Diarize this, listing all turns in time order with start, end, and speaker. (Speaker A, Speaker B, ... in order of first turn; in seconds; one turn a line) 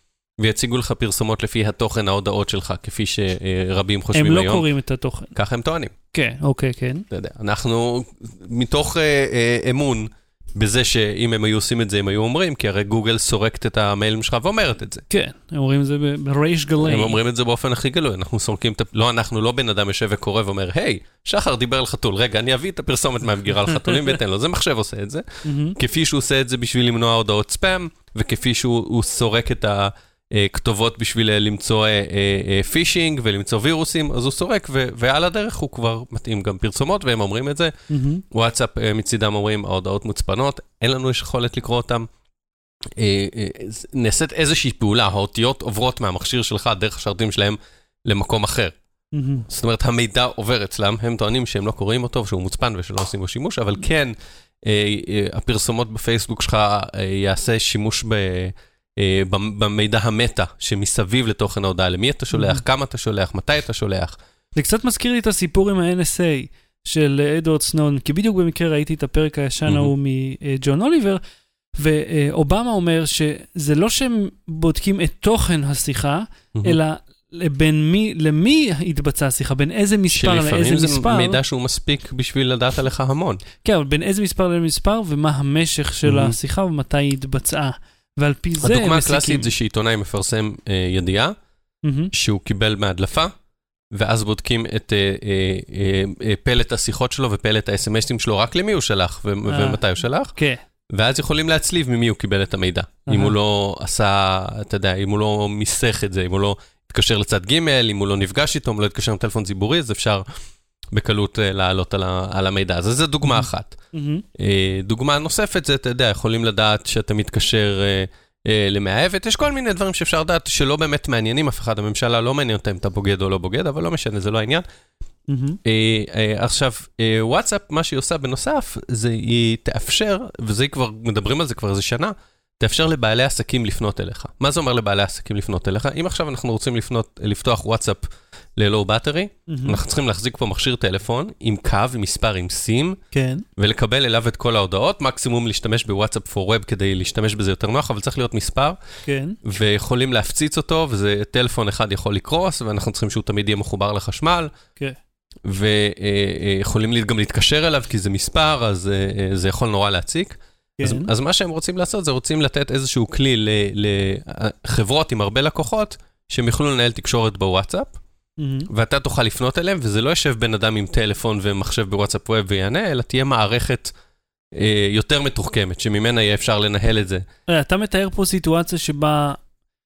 Speaker A: 0.4-4.7
Speaker B: 4.1-5.3
Speaker A: 5.3-5.9
Speaker B: 6.1-7.1
Speaker A: 7.1-15.0
Speaker B: 15.1-17.2
Speaker A: 16.8-25.2
Speaker B: 23.7-24.1
Speaker B: 25.4-25.8
Speaker A: 25.8-37.7
Speaker B: 37.9-38.2
Speaker A: 38.3-42.1
Speaker A: 42.9-48.8
Speaker B: 49.1-49.5
Speaker A: 49.5-64.2
Speaker B: 62.3-62.6
Speaker B: 64.6-71.2
Speaker A: 69.7-69.9
Speaker B: 71.8-81.4
Speaker A: 80.1-83.4
Speaker B: 83.6-89.5
Speaker A: 86.0-86.3
Speaker A: 88.6-91.3
Speaker B: 91.8-92.1
Speaker A: 92.1-93.3
Speaker A: 93.9-100.3
Speaker B: 99.5-99.8
Speaker B: 100.3-100.6
Speaker A: 100.9-110.2
Speaker B: 103.1-103.3
Speaker A: 110.9-113.8
Speaker B: 113.2-114.2
Speaker A: 114.3-124.6
Speaker B: 125.3-125.6
Speaker A: 125.7-143.0
Speaker B: 139.5-139.8
Speaker B: 143.1-143.5
Speaker A: 143.6-148.8
Speaker B: 149.0-149.4
Speaker A: 149.4-154.5
Speaker A: 155.5-168.0
Speaker B: 160.8-161.1
Speaker B: 168.4-168.7
Speaker A: 168.7-173.9
Speaker A: 174.5-177.2
Speaker B: 177.5-179.4